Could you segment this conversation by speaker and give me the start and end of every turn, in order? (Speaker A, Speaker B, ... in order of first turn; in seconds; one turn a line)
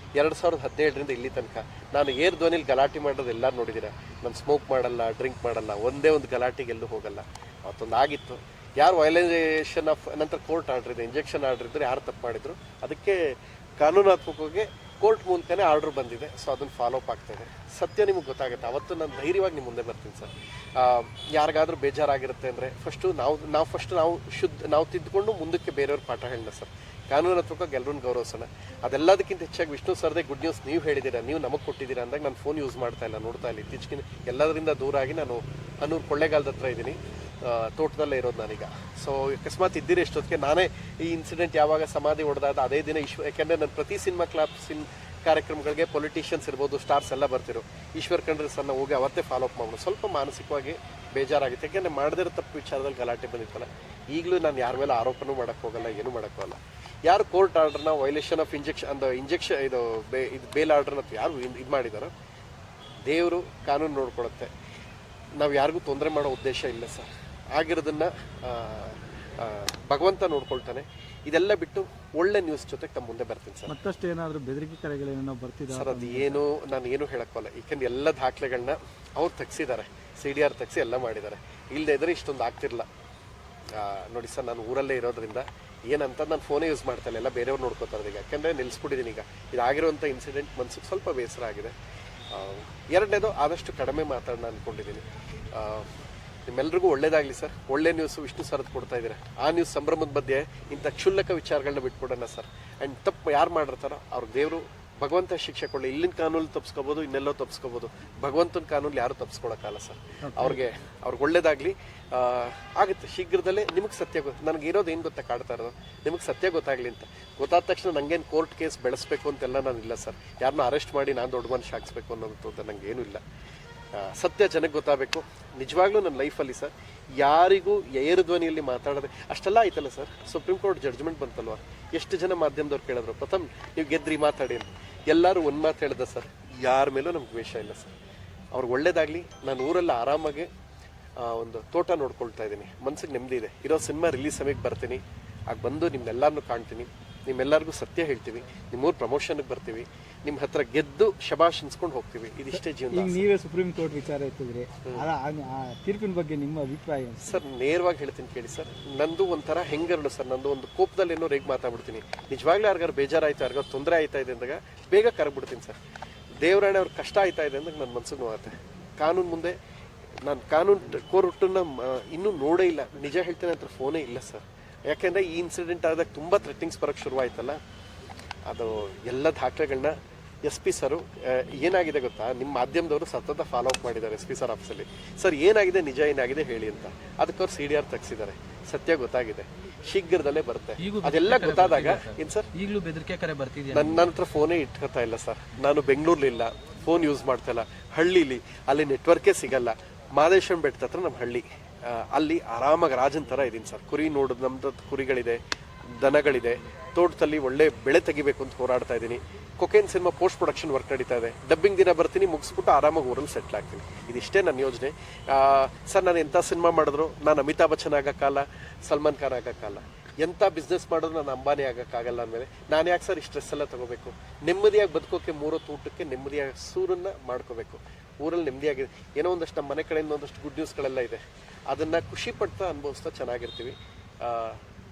Speaker A: 0.1-62.1
Speaker A: 63.0-64.5
Speaker A: 65.4-73.7
Speaker B: 73.7-76.4
Speaker A: 75.7-82.9
Speaker A: 83.7-91.7
Speaker A: 92.3-95.9
Speaker A: 96.5-123.2
Speaker B: 110.2-110.6
Speaker A: 123.9-137.9
Speaker A: 138.5-140.5
Speaker A: 141.2-153.2
Speaker B: 152.5-157.4
Speaker A: 157.2-165.7
Speaker A: 166.4-169.6
Speaker A: 170.2-177.6
Speaker A: 178.4-192.5
Speaker C: 190.8-193.9
Speaker A: 193.7-234.6